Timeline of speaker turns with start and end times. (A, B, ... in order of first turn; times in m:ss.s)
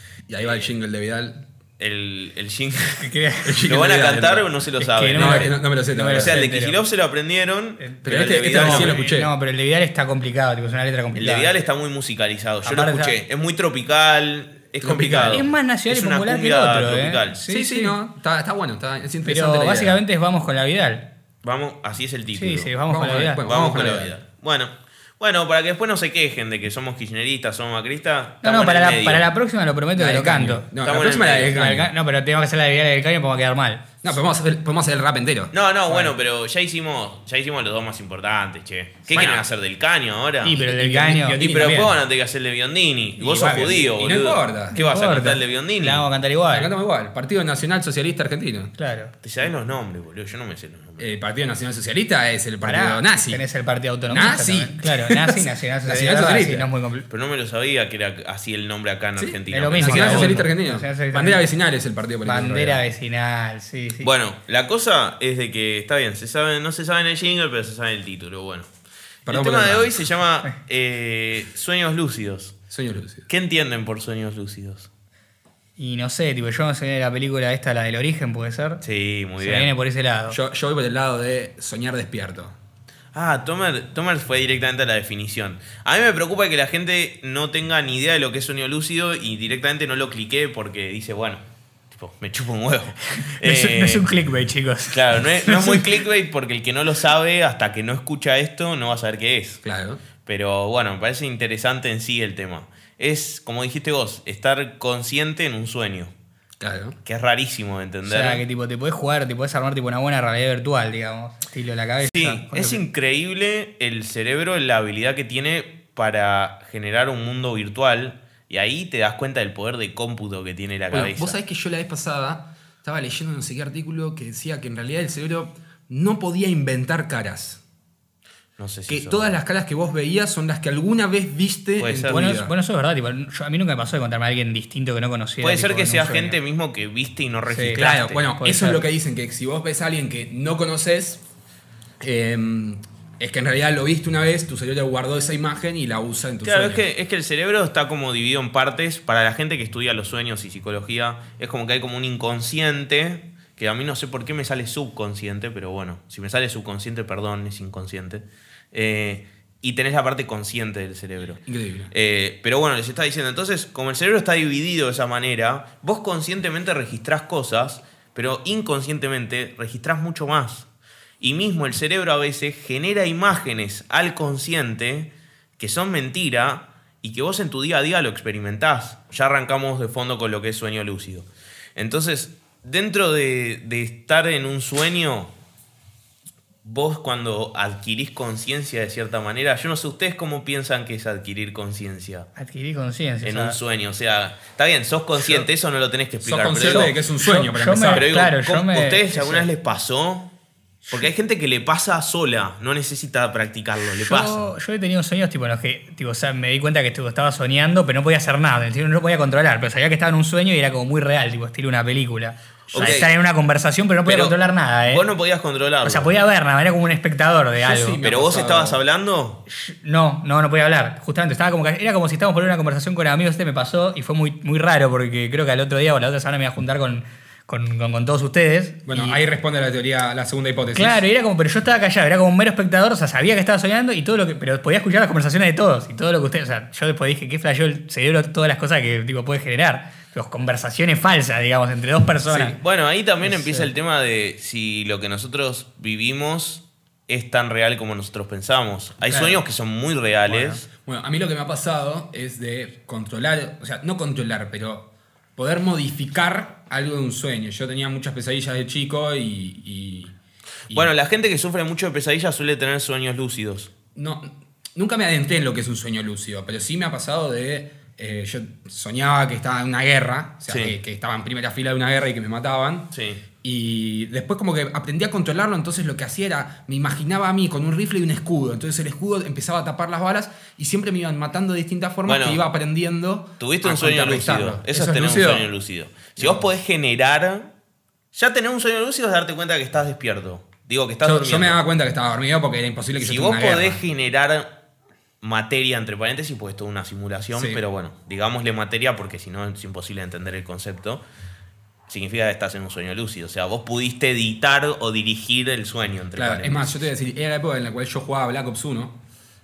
0:00.3-0:01.4 A
0:00.4-0:00.7 B
0:01.8-0:03.1 B
0:03.0-0:03.7 C
0:03.4-0:04.5 A
0:03.7-0:05.5 B
0:04.8-0:06.8 C
0:05.1-0:06.4 A
0:06.1-0:09.0 B
0:07.8-0:11.6 C
0:08.0-0:09.3 A
0:11.2-0:17.4 B
0:12.6-0:13.2 C
0:14.8-0:15.5 A
0:15.3-0:18.0 C
0:17.5-0:20.0 A
0:19.2-0:21.0 C
0:21.4-0:22.7 B
0:22.4-0:23.4 C
0:22.9-0:24.1 A
0:23.4-0:29.3 B
0:28.4-0:30.7 C
0:30.0-0:31.9 A
0:30.8-0:31.6 B
0:31.5-0:33.8 C
0:34.0-0:35.5 A
0:35.5-0:46.1 B
0:39.1-0:39.4 C
0:40.4-0:42.0 C
0:40.6-0:41.6 A
0:43.2-0:44.8 A
0:44.7-0:46.7 C
0:46.5-0:48.7 A
0:48.8-0:49.1 C
0:49.2-0:51.1 B
0:51.0-0:53.4 A
0:52.7-0:57.1 C
0:54.1-0:56.7 A
0:57.1-1:00.4 B
0:59.2-1:02.8 A
0:59.5-1:01.5 C
1:02.2-1:04.1 C
1:04.0-1:08.7 B
1:09.3-1:10.1 A
1:09.3-1:12.6 B
1:12.7-1:13.3 A
1:13.3-1:14.9 B
1:15.8-1:18.8 C
1:18.8-1:19.7 B
1:19.4-1:20.4 C
1:20.3-1:22.5 A
1:23.1-1:31.4 B
1:31.9-1:34.1 B
1:33.1-1:35.9 C
1:34.9-1:39.6 B
1:39.6-1:40.0 A
1:40.3-1:46.1 B
1:46.6-1:47.0 A
1:47.0-1:48.4 B
1:48.1-1:52.8 C
1:52.0-2:01.4 B
2:00.9-2:07.6 A
2:08.6-2:09.3 B
2:08.9-2:12.5 A
2:11.8-2:12.3 B
2:12.1-2:16.4 C
2:15.4-2:18.3 B
2:17.5-2:18.8 C
2:17.8-2:21.2 A
2:22.0-2:26.9 A
2:26.4-2:50.7 B
2:41.5-2:41.9 A
2:51.2-3:05.3 B
3:06.6-3:12.3 B
3:12.4-3:13.6 C
3:13.2-3:16.9 B
3:16.2-3:18.1 A
3:16.7-3:19.5 C
3:17.9-3:20.3 B
3:20.9-3:24.4 B
3:24.0-3:35.0 C
3:32.7-3:33.0 A
3:32.7-3:33.1 B
3:34.0-3:34.4 B
3:34.9-3:36.1 B
3:35.8-3:38.0 C
3:37.6-3:38.8 A
3:38.0-3:39.4 B
3:39.5-3:49.2 C
3:48.9-3:51.0 A
3:50.8-4:02.6 C
4:02.3-4:02.6 A
4:02.4-4:10.6 B
4:03.4-4:03.7 C
4:09.1-4:09.4 A
4:10.3-4:20.2 A
4:20.7-4:23.7 B
4:24.0-4:32.9 A
4:30.5-4:30.8 B
4:32.9-4:33.2 B
4:33.4-4:45.5 A
4:42.1-4:42.4 B
4:43.4-4:47.5 B
4:46.2-4:46.4 A
4:48.1-4:51.6 B
4:51.0-4:53.8 A
4:53.0-4:54.5 B
4:55.2-5:01.0 B
4:57.3-4:57.6 A
5:01.9-5:06.8 B
5:06.2-5:09.0 A